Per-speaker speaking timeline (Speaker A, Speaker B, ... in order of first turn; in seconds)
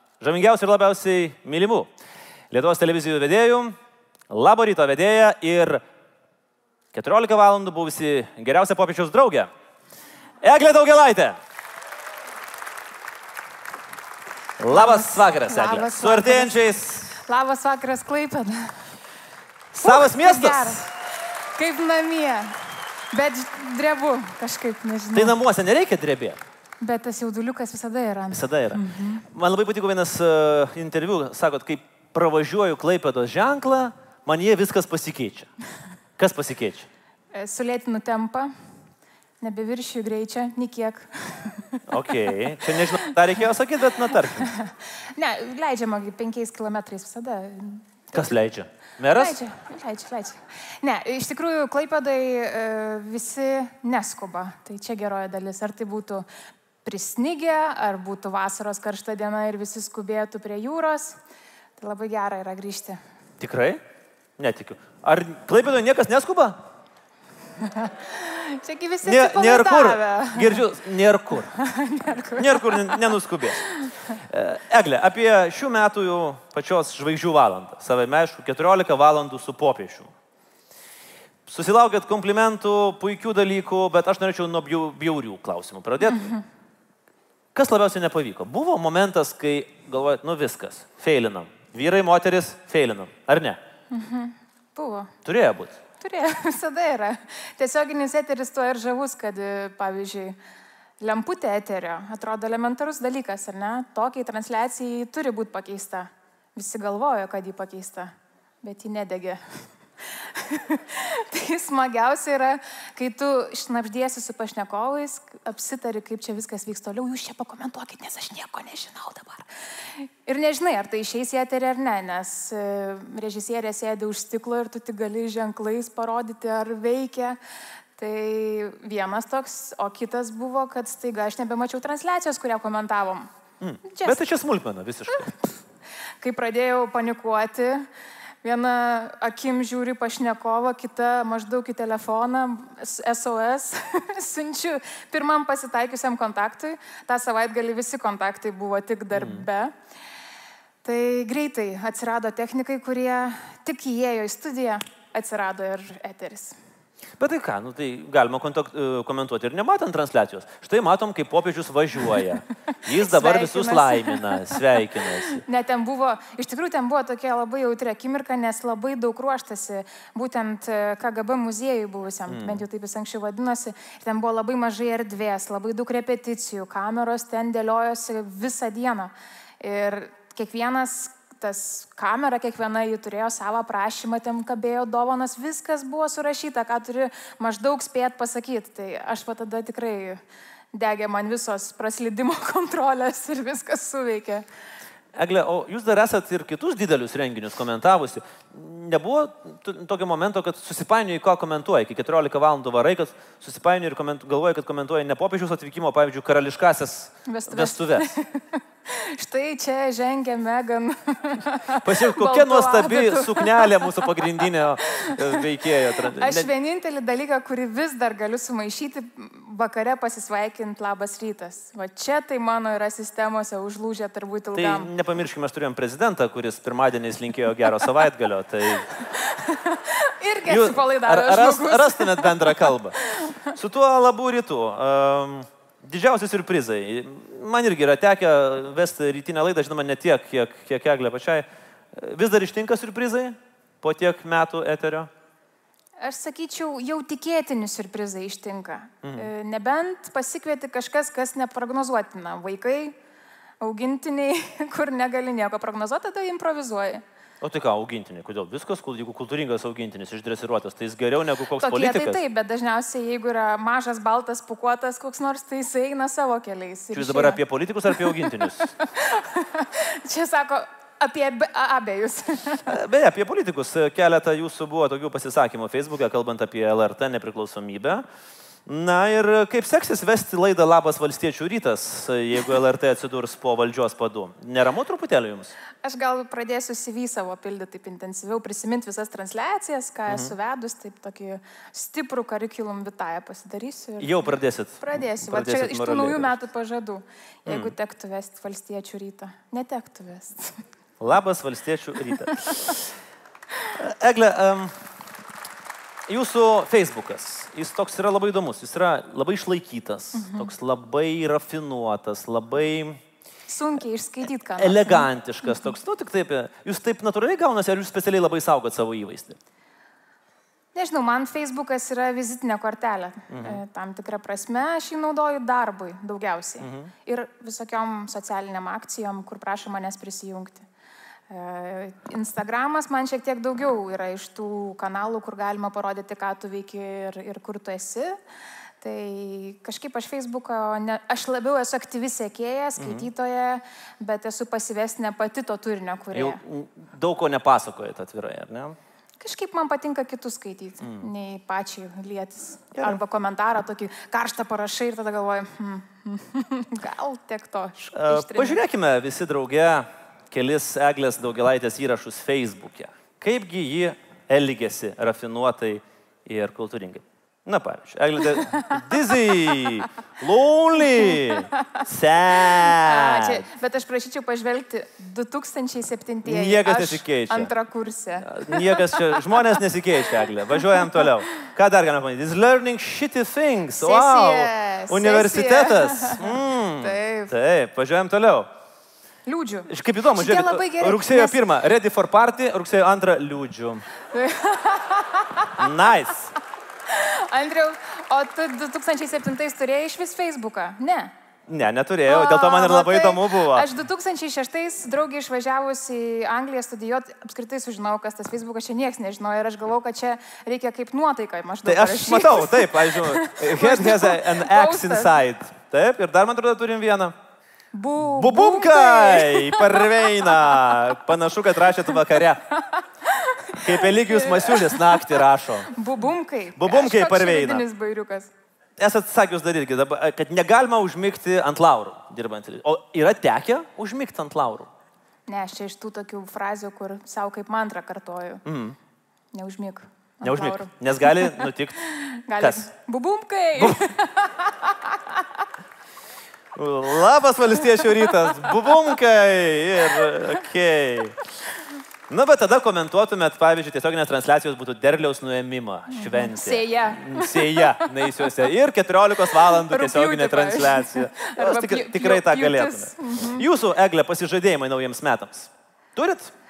Speaker A: 0.2-1.9, 2.5-3.8, 4.3-5.8, 6.9-9.5, 10.4-11.4, 14.6-17.1, 19.7-20.8, 25.1-26.4, 28.3-35.5, 36.2-36.9, 41.9-44.5, 48.1-49.4, 63.4-63.8, 64.4-66.6, 69.0-71.5, 72.4-73.6, 74.2-80.1, 81.5-86.3, 87.5-93.6, 95.2-95.8, 133.6-135.3, 149.1-149.5, 157.2-165.4, 172.3-172.6, 195.2-208.1, 211.8-216.5, 224.5-228.9, 230.5-232.9, 233.5-245.1, 249.0-249.3, 257.4-262.2, 266.9-268.7, 272.7-278.0, 278.7-285.5, 290.1-290.3, 294.0-296.3, 297.5-297.7, 301.0-302.8, 303.7-304.7, 306.1-313.0, 314.6-319.4, 323.3-323.6, 326.6-326.9, 342.8-343.1, 346.1-348.8, 357.9-373.4, 376.2-377.5, 378.2-388.5, 389.7-393.9, 395.6-396.3, 401.5-403.7, 411.6-417.2, 418.2-422.4, 423.6-425.7, 426.6-427.6, 428.8-434.7, 438.4-438.8, 440.2-441.8, 442.4-442.7, 446.6-451.2, 452.1-466.3
Speaker B: 14.7-18.7, 19.8-21.0, 21.6-22.6, 23.1-25.4, 26.8-29.2, 37.3-38.5, 39.4-42.1, 42.7-43.2, 44.1-48.4, 49.1-56.2, 56.8-61.2, 61.8-63.0, 67.6-70.7, 71.5-74.2, 86.1-86.4, 93.9-95.1, 96.0-100.4, 101.0-108.1, 108.6-109.4, 110.0-127.4, 128.0-133.3, 133.8-134.2, 136.2-137.9, 138.4-149.7, 150.8-156.6, 162.9-164.7, 165.3-190.2, 190.7-194.4, 207.3-214.3, 214.9-224.9, 229.0-233.6, 246.0-252.9, 253.6-257.0, 261.6-272.7, 285.8-300.6, 310.1-310.5, 313.5-315.7, 320.7-330.7, 331.3-338.2, 338.8-346.4, 349.2-358.6, 371.1-371.6, 372.6-379.2, 380.5-381.1, 383.8-387.3, 389.3-391.4, 394.1-395.7, 396.9-401.1, 402.1-415.2, 417.7-420.8, 422.5-428.3, 435.3-438.4, 439.3-445.4, 447.7-448.6, 449.8-450.2, 455.9-458.0, 459.3-463.5